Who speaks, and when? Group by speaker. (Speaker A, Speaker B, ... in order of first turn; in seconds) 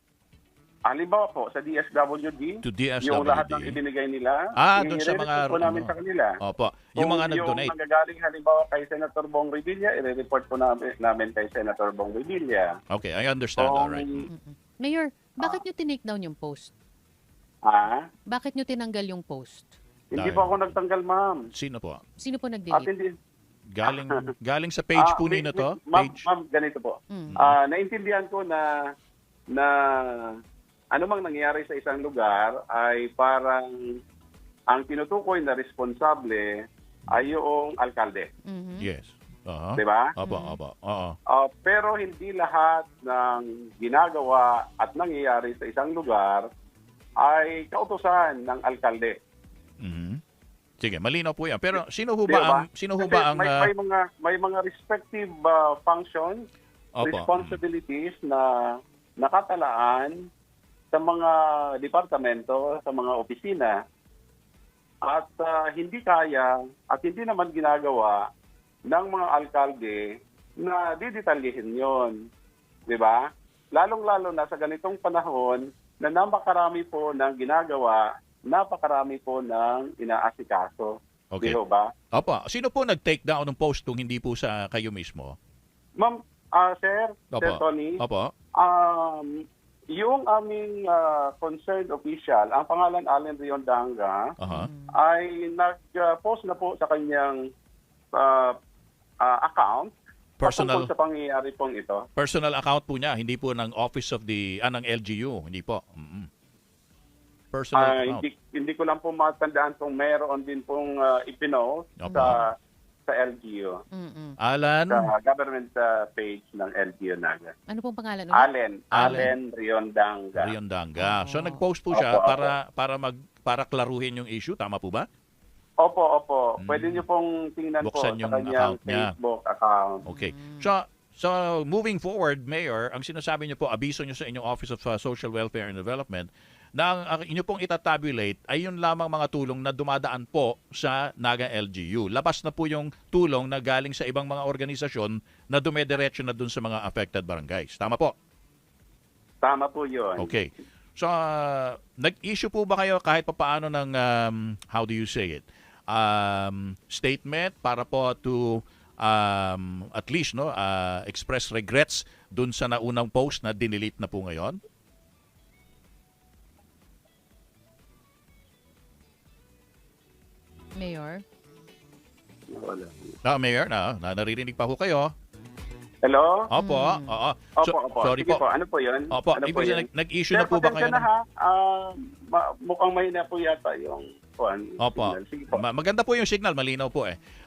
Speaker A: 0.9-6.4, 7.0-12.7, 13.6-14.3, 17.7-18.0, 20.1-21.4, 22.7-23.1, 25.0-28.7, 29.5-30.3, 30.9-33.7, 34.7-36.5, 37.1-38.3, 39.8-40.1, 41.3-46.5, 47.2-49.2, 52.3-56.4, 57.0-58.5, 59.2-60.1, 60.9-63.8, 65.1-68.2, 68.9-70.0, 70.6-72.2, 72.9-73.2, 73.8-81.9, 86.0-88.0, 88.6-89.3, 90.0-94.2, 95.0-97.4, 98.2-98.5, 99.2-99.9, 100.4-102.0, 107.8-112.5, 113.1-113.8, 114.9-117.5, 118.3-120.5, 121.9-122.5, 125.8-130.1, 149.4-150.3, 172.5-173.1, 176.0-176.3, 177.6-185.6
Speaker B: 2.6-3.8, 4.6-7.7, 12.9-14.3, 20.2-20.8, 21.5-22.0, 23.7-26.2, 27.3-27.6, 38.8-41.2, 49.8-50.2, 50.8-53.7, 57.0-57.6, 81.3-81.6, 82.1-85.4, 87.3-88.3, 94.4-94.7, 100.4-100.9, 102.2-106.3, 107.5-108.2, 112.0-112.4, 114.4-115.1, 118.9-119.3, 120.4-125.1, 126.6-127.0, 127.8-129.1, 130.1-148.1, 150.2-164.6, 173.2-175.1, 176.5-178.4, 179.1-181.1, 184.8-187.2
Speaker C: 14.3-16.7, 18.3-19.7, 22.2-22.9, 38.5-38.9, 40.2-40.6, 94.5-95.0, 112.0-112.4, 114.0-114.4, 117.7-119.3, 121.0-121.6, 130.2-130.7, 170.8-171.2, 176.6-177.2